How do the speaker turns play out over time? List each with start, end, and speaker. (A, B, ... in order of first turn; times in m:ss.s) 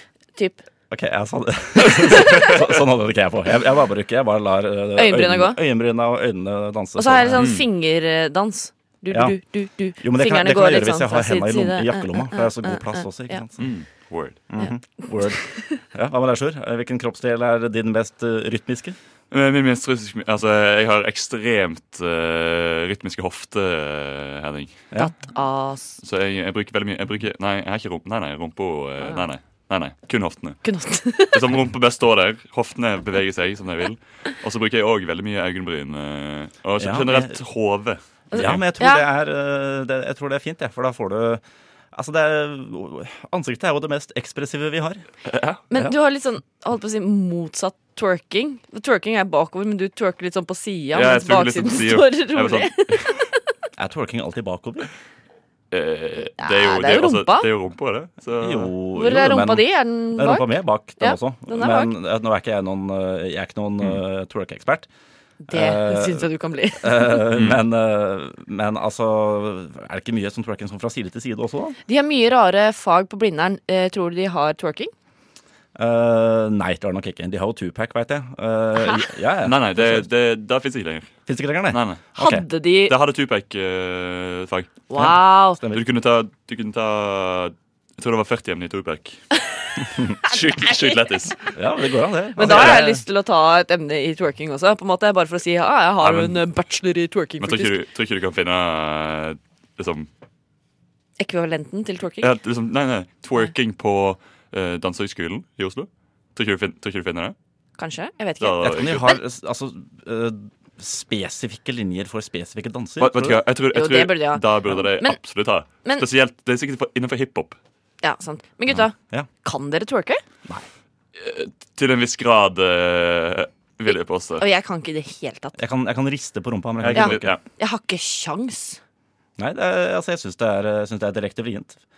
0:00.3-0:00.6 A
0:00.9-0:07.4 B
0:02.0-0:02.5 A
0:05.0-0:05.6 A
0:07.0-0:13.4 A
0:07.3-0:07.6 C
0:09.1-0:09.4 B
0:10.0-0:13.7 B
0:13.6-0:14.4 C
0:14.5-0:19.0 B
0:19.3-0:24.8 C
0:25.0-0:26.0 A
0:26.0-0:30.6 C
0:30.6-0:31.4 A
0:31.3-0:38.6 C
0:36.8-0:37.4 B
0:38.3-0:39.0 A
0:38.3-0:41.4 B
0:41.9-0:45.0 B
0:45.2-0:45.6 C
0:45.7-0:53.3 A
0:50.9-0:53.2 C
0:53.8-0:54.9 B
0:55.7-0:58.7 C
0:56.4-0:57.5 A
0:58.4-1:04.9 B
0:58.9-1:01.9 A
1:05.4-1:07.2 A
1:05.5-1:06.3 B
1:06.8-1:11.8 B
1:07.3-1:07.6 C
1:11.9-1:14.9 A
1:15.8-1:20.0 B
1:19.4-1:21.1 C
1:21.3-1:22.4 B
1:21.7-1:22.0 C
1:22.2-1:22.9 A
1:22.9-1:24.8 C
1:24.9-1:25.6 A
1:24.9-1:25.8 B
1:25.7-1:29.2 C
1:29.8-1:30.2 B
1:30.2-1:31.5 C
1:30.3-1:31.0 A
1:31.5-1:33.0 B
1:32.4-1:37.8 A
1:32.4-1:32.8 C
1:36.0-1:36.4 C
1:37.4-1:40.1 C
1:41.2-1:42.3 A
1:42.2-1:47.3 C
1:47.8-1:49.1 A
1:48.4-1:49.1 C
1:48.6-1:53.4 B
1:53.0-1:57.6 C
1:53.7-1:55.2 A
1:58.0-2:00.2 A
2:01.2-2:04.4 C
2:04.4-2:05.6 A
2:05.6-2:07.4 B
2:06.8-2:07.4 C
2:06.9-2:08.8 A
2:09.4-2:11.8 B